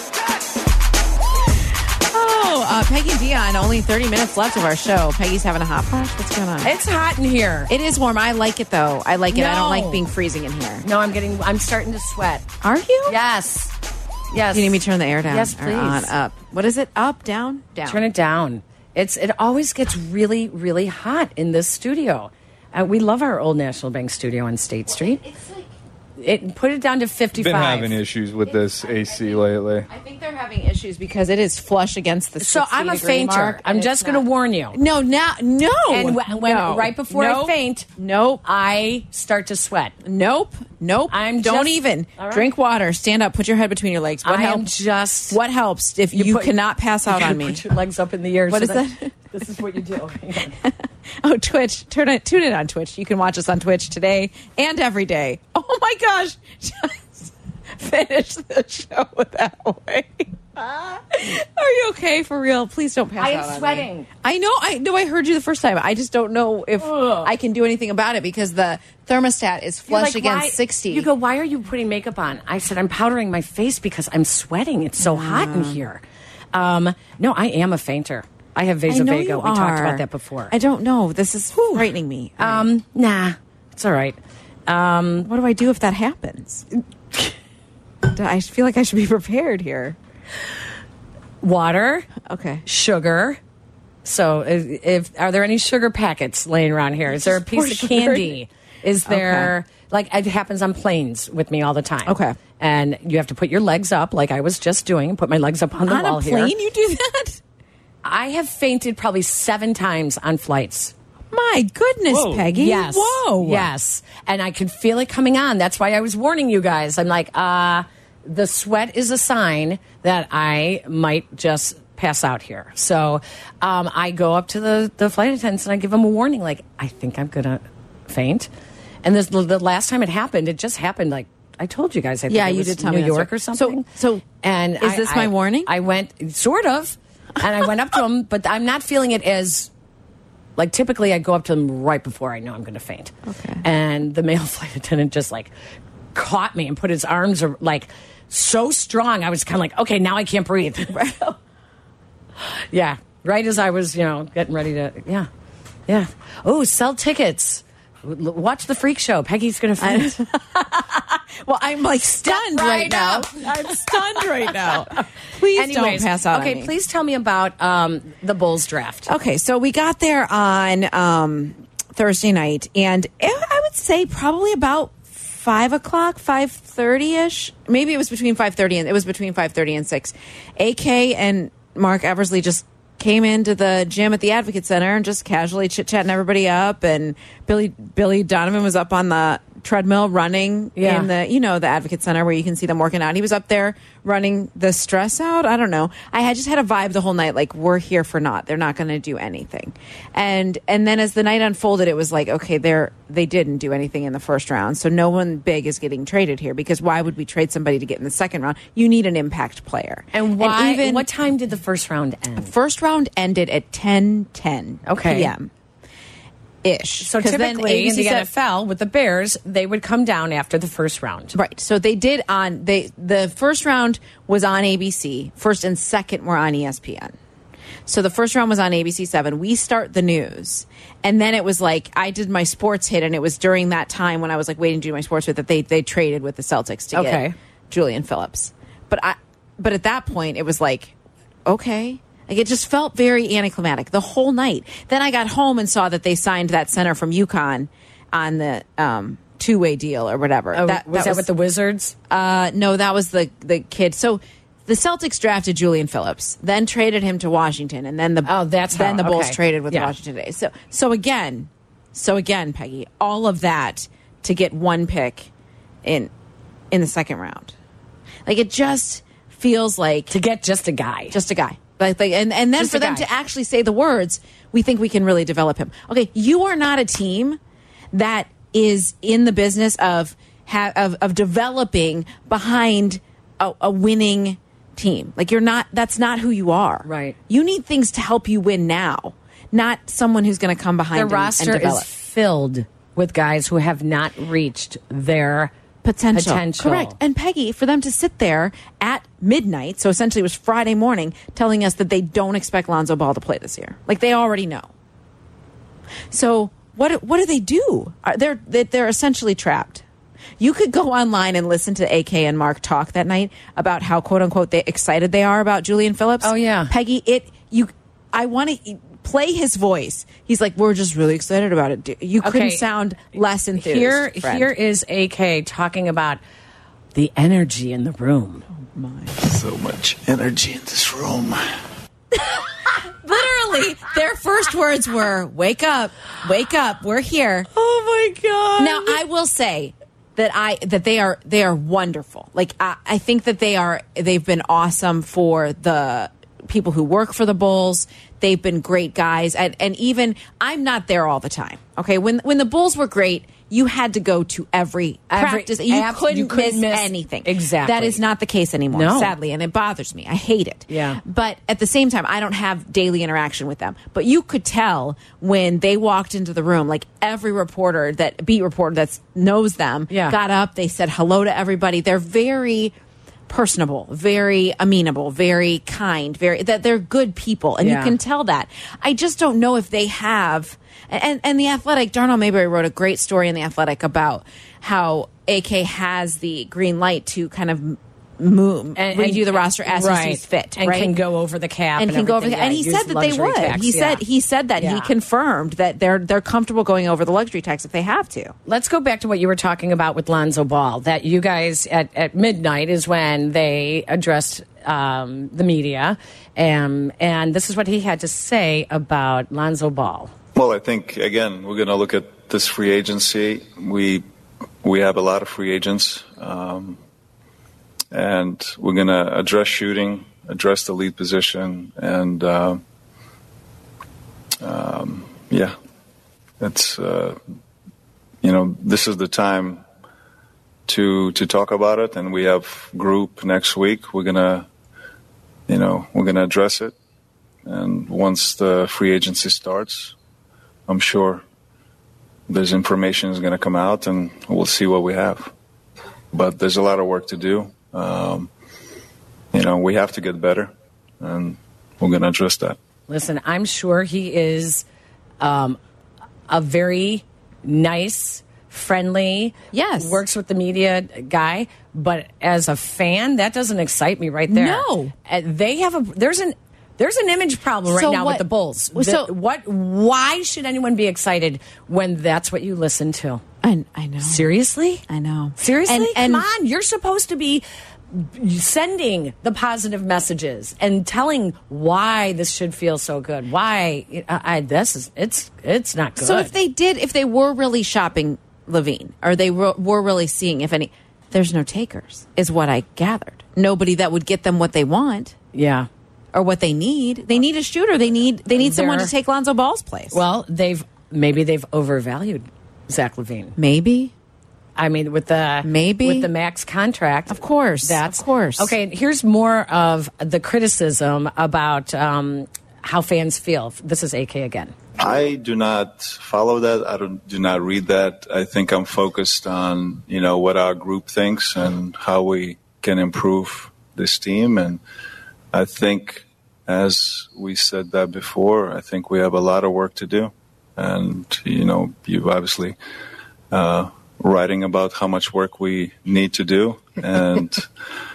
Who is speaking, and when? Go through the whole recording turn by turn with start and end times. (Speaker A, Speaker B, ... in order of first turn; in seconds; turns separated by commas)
Speaker A: 2.1-6.8, Speaker B: 6.6-7.7, Speaker A: 7.7-10.8, Speaker B: 9.3-10.1, Speaker B: 10.8-12.4, Speaker A: 12.6-13.2, Speaker B: 13.1-13.7, Speaker B: 14.3-16.1, Speaker A: 14.5-18.1, Speaker B: 17.8-25.2, Speaker A: 24.9-25.7, Speaker B: 26.2-28.0, Speaker C: 27.4-29.8, Speaker A: 28.4-38.4, Speaker B: 32.4-34.8, Speaker B: 35.9-37.9, Speaker B: 38.4-39.9, Speaker A: 40.0-44.7, Speaker B: 41.1-42.5, Speaker B: 44.2-45.4, Speaker A: 45.3-47.6, Speaker B: 46.1-50.6, Speaker A: 48.5-49.1, Speaker A: 51.2-71.1, Speaker B: 63.2-64.1, Speaker B: 66.8-67.3, Speaker B: 69.9-76.0, Speaker A: 75.0-75.8, Speaker B: 76.5-80.5, Speaker A: 78.9-82.7, Speaker B: 81.5-81.9, Speaker B: 82.4-85.3, Speaker A: 85.2-86.7, Speaker A: 88.1-90.0, Speaker B: 91.4-92.1, Speaker A: 92.2-92.6, Speaker B: 92.6-93.4, Speaker B: 94.0-106.5, Speaker A: 97.1-98.3, Speaker A: 99.1-99.5, Speaker A: 102.0-102.3, Speaker A: 105.8-107.4, Speaker B: 108.0-110.9, Speaker A: 111.3-113.7, Speaker B: 112.2-128.5, Speaker B: 129.0-139.7, Speaker A: 132.3-134.2, Speaker A: 134.8-135.7, Speaker B: 140.6-145.5, Speaker A: 143.2-143.6, Speaker B: 146.1-151.1, Speaker A: 150.9-151.4, Speaker B: 152.7-155.3, Speaker B: 155.9-160.2, Speaker A: 159.8-166.7, Speaker B: 162.2-164.9, Speaker B: 165.5-169.1, Speaker A: 169.1-211.1, Speaker B: 190.8-191.1, Speaker B: 210.1-212.5, Speaker A: 212.4-215.5, Speaker B: 214.8-215.3, Speaker A: 216.6-218.3, Speaker B: 217.0-221.3, Speaker A: 221.3-227.1, Speaker A: 227.8-240.9, Speaker B: 236.9-237.3, Speaker A: 241.4-251.3, Speaker B: 250.5-251.9, Speaker A: 252.1-265.3, Speaker B: 258.2-259.9, Speaker A: 265.8-266.1, Speaker A: 266.7-267.5, Speaker A: 268.2-270.1, Speaker B: 270.1-271.2, Speaker A: 271.1-277.4, Speaker B: 272.6-273.1, Speaker A: 277.9-291.9, Speaker B: 286.8-287.1, Speaker B: 290.9-295.5, Speaker A: 295.8-304.7, Speaker B: 296.1-296.9, Speaker A: 306.1-309.8, Speaker A: 310.4-324.5, Speaker B: 316.2-316.7, Speaker B: 322.2-322.6, Speaker B: 323.5-326.2, Speaker B: 326.9-328.4, Speaker A: 328.6-329.2, Speaker D: 329.4-331.4, Speaker A: 332.2-337.5, Speaker B: 337.5-339.0, Speaker A: 338.6-372.7, Speaker B: 355.1-358.0, Speaker B: 358.7-359.1, Speaker B: 360.7-361.0, Speaker B: 369.9-370.2, Speaker A: 373.3-391.0, Speaker B: 377.6-378.0, Speaker B: 388.8-394.0, Speaker A: 391.8-398.3, Speaker B: 394.6-394.9, Speaker B: 398.4-410.1, Speaker D: 410.3-414.0, Speaker D: 414.6-416.8, Speaker D: 417.9-422.6, Speaker D: 424.4-425.5, Speaker D: 426.4-427.2, Speaker D: 428.2-429.6, Speaker D: 430.7-434.5, Speaker D: 435.5-436.7, Speaker D: 437.4-439.9, Speaker D: 440.7-441.2, Speaker D: 442.3-445.3, Speaker D: 446.1-448.3, Speaker D: 449.3-452.6, Speaker B: 452.9-454.6, Speaker B: 455.2-455.6, Speaker B: 456.3-473.2, Speaker A: 459.5-460.0, Speaker A: 464.3-464.9, Speaker A: 467.7-469.1, Speaker A: 473.4-474.3, Speaker B: 474.0-474.8, Speaker A: 474.9-476.2, Speaker B: 475.4-486.3, Speaker A: 486.0-495.1, Speaker B: 495.3-495.7, Speaker A: 496.1-500.0, Speaker B: 498.4-498.9, Speaker B: 499.9-503.3, Speaker A: 503.4-503.9, Speaker B: 504.6-514.5, Speaker A: 505.4-506.1, Speaker A: 507.1-508.5, Speaker D: 514.8-524.6, Speaker D: 525.3-532.5, Speaker D: 533.3-537.5